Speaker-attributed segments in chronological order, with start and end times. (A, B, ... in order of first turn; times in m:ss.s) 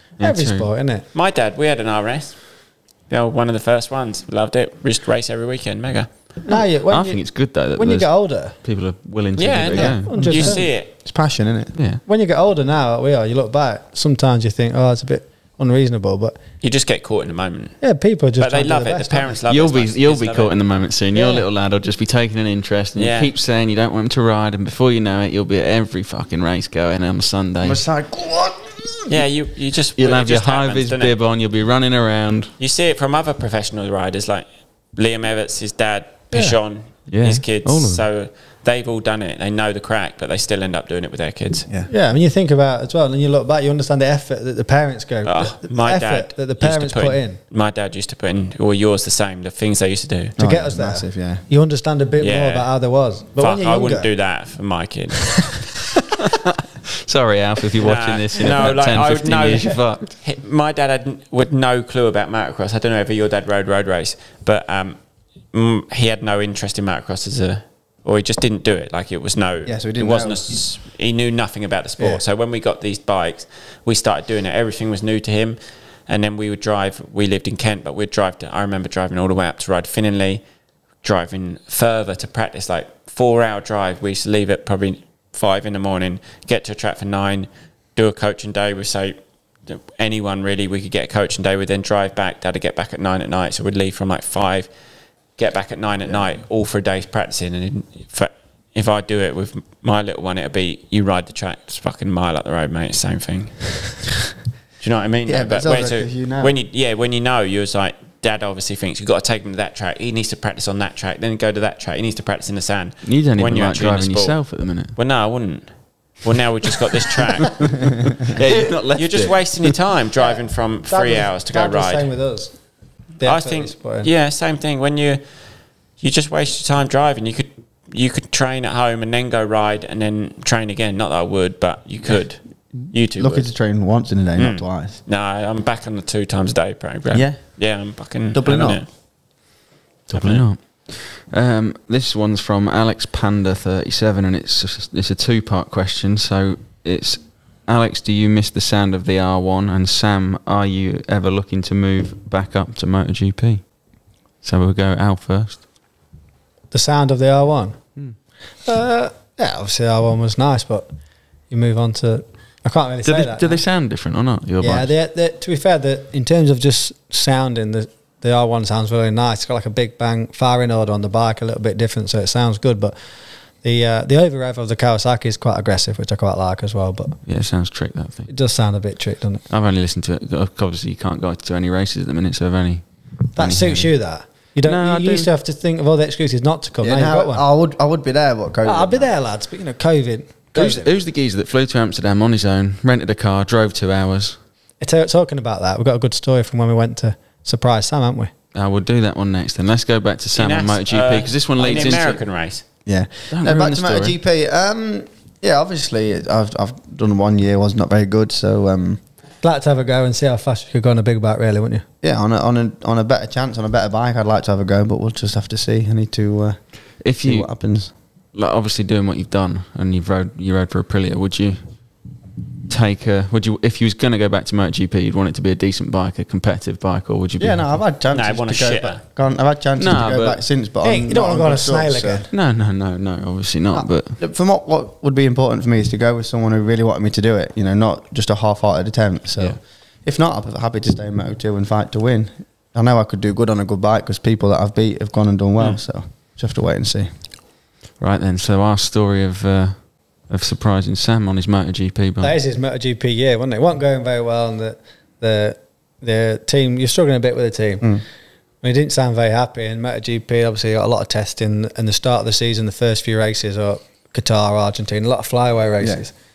0:00.2-0:00.7 A
0:00.2-0:01.0 B
0:01.1-0:06.4 C
0:06.4-0:08.6 B
0:06.9-0:10.6 A
0:09.4-0:10.9 C
0:09.8-0:10.7 B
0:09.8-0:11.8 D
0:11.8-0:12.0 A
0:12.1-0:16.4 B
0:16.6-0:17.8 C
0:17.8-0:19.4 B
0:18.4-0:21.3 C
0:19.5-0:27.8 A
0:23.0-0:23.3 C
0:27.6-0:29.1 D
0:29.1-0:31.2 C
0:30.0-0:32.5 A
0:32.6-0:41.7 C
0:37.1-0:38.0 A
0:41.9-0:47.4 B
0:45.3-0:50.4 C
0:50.4-0:51.4 D
0:50.4-0:54.1 B
0:52.2-0:52.8 C
0:53.4-0:55.7 C
0:57.1-1:00.2 A
0:57.8-1:20.4 C
1:09.6-1:10.4 D
1:21.0-1:34.7 C
1:35.4-1:44.0 C
1:44.8-1:57.8 C
1:45.3-1:46.5 D
1:53.0-1:54.9 A
1:58.3-1:59.7 A
1:59.0-2:02.2 C
2:00.2-2:04.1 B
2:03.2-2:13.6 C
2:12.7-2:15.0 D
2:14.4-2:18.9 C
2:17.1-2:18.8 D
2:20.1-2:20.5 C
2:20.1-2:35.6 A
2:36.7-2:37.8 B
2:38.6-2:40.9 B
2:41.5-2:43.6 B
2:43.0-2:44.9 A
2:44.6-2:57.2 B
2:57.2-2:58.4 A
2:58.3-2:59.4 B
2:59.5-3:05.3 A
3:03.3-3:07.4 B
3:06.8-3:09.1 D
3:08.6-3:11.0 B
3:10.5-3:14.4 A
3:14.8-3:18.3 B
3:18.5-3:22.7 A
3:20.4-3:22.6 C
3:22.8-3:29.0 D
3:23.3-3:24.2 A
3:29.4-3:31.8 B
3:32.0-3:37.9 D
3:37.0-3:42.0 A
3:42.7-3:47.7 A
3:47.4-3:52.3 D
3:48.1-3:49.0 C
3:49.8-3:50.4 A
3:50.8-3:52.3 B
3:52.3-3:54.2 A
3:53.7-4:07.1 D
4:08.0-4:12.4 A
4:12.2-4:18.0 B
4:18.6-4:26.2 B